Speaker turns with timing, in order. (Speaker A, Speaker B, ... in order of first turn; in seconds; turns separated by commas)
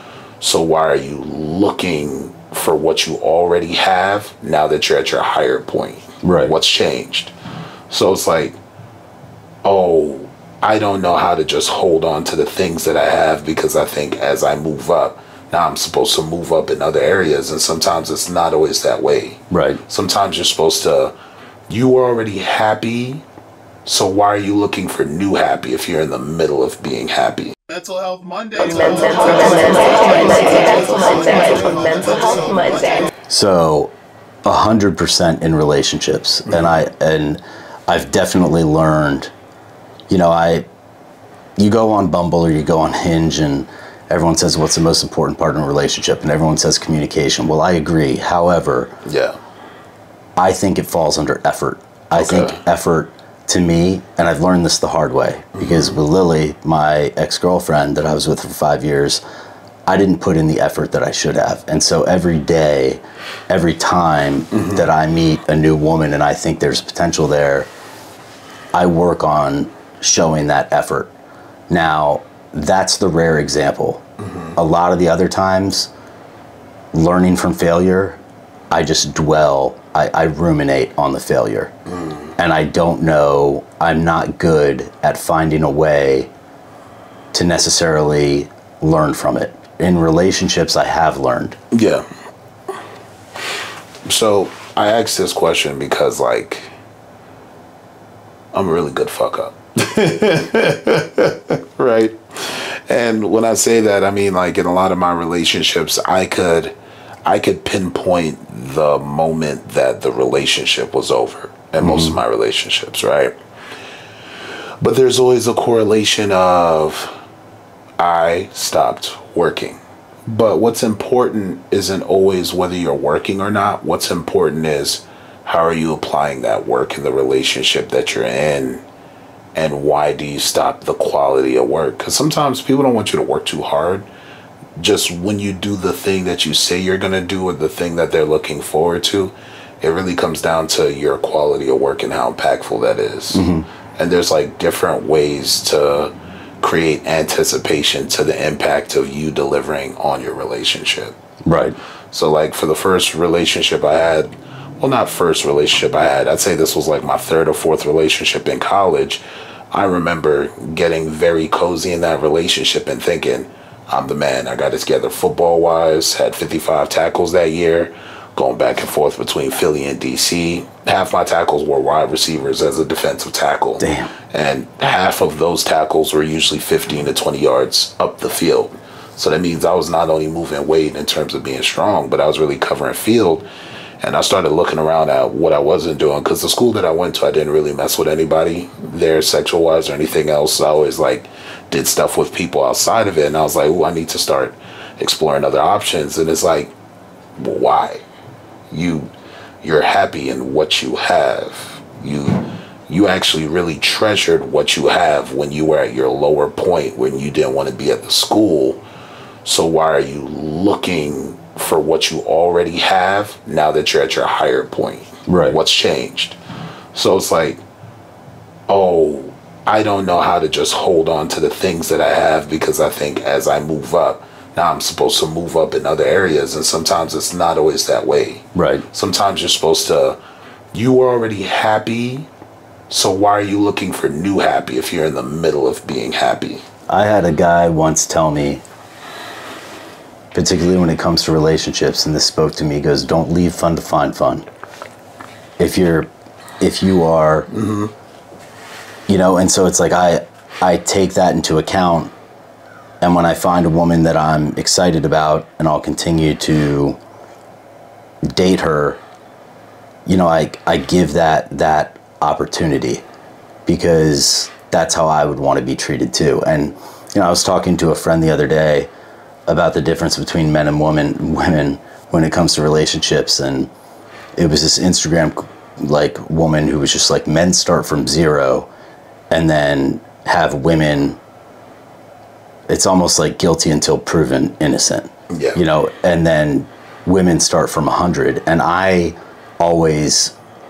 Speaker A: 0.4-7.3, Speaker B: 6.2-6.5, Speaker A: 7.9-8.6, Speaker A: 9.6-21.1, Speaker B: 19.5-19.8, Speaker A: 21.7-23.2, Speaker A: 23.9-28.6, Speaker C: 28.6-32.3, Speaker B: 33.3-33.9, Speaker B: 34.5-39.3, Speaker B: 40.1-40.6, Speaker B: 41.6-48.9, Speaker A: 49.0-49.4, Speaker B: 50.4-59.2, Speaker A: 52.1-52.6, Speaker A: 55.5-56.0, Speaker B: 59.9-67.7, Speaker A: 64.5-64.8, Speaker B: 68.7-71.1, Speaker B: 71.7-74.0, Speaker A: 74.2-74.5, Speaker B: 74.5-75.9, Speaker B: 76.9-78.2, Speaker B: 78.7-81.7, Speaker A: 81.9-82.3, Speaker B: 82.4-86.3, Speaker B: 87.3-91.6, Speaker A: 91.7-92.0, Speaker A: 94.0-96.7, Speaker A: 98.5-106.7, Speaker A: 107.2-113.3, Speaker B: 111.8-112.2, Speaker A: 114.8-117.1, Speaker A: 118.0-128.8, Speaker A: 129.5-134.1, Speaker A: 134.8-143.4, Speaker B: 143.3-143.7, Speaker A: 144.0-151.2, Speaker B: 151.4-151.8, Speaker A: 152.1-183.4, Speaker B: 173.8-174.1, Speaker A: 184.0-196.7, Speaker A: 197.4-198.0, Speaker A: 198.7-199.1, Speaker A: 199.6-208.8, Speaker A: 209.4-216.3, Speaker B: 215.3-215.6, Speaker A: 216.9-217.6, Speaker A: 218.7-230.2, Speaker B: 228.5-228.8, Speaker A: 230.7-232.3, Speaker A: 232.9-236.6, Speaker B: 236.9-238.6, Speaker B: 240.3-244.4, Speaker B: 245.6-246.1, Speaker B: 246.6-247.5, Speaker A: 247.5-247.9, Speaker B: 249.1-252.1, Speaker B: 253.0-257.0, Speaker B: 258.3-259.0, Speaker B: 260.1-263.0, Speaker B: 263.6-268.9, Speaker B: 269.5-273.7, Speaker B: 274.4-278.7, Speaker B: 279.3-281.2, Speaker B: 282.7-290.3, Speaker A: 285.3-285.6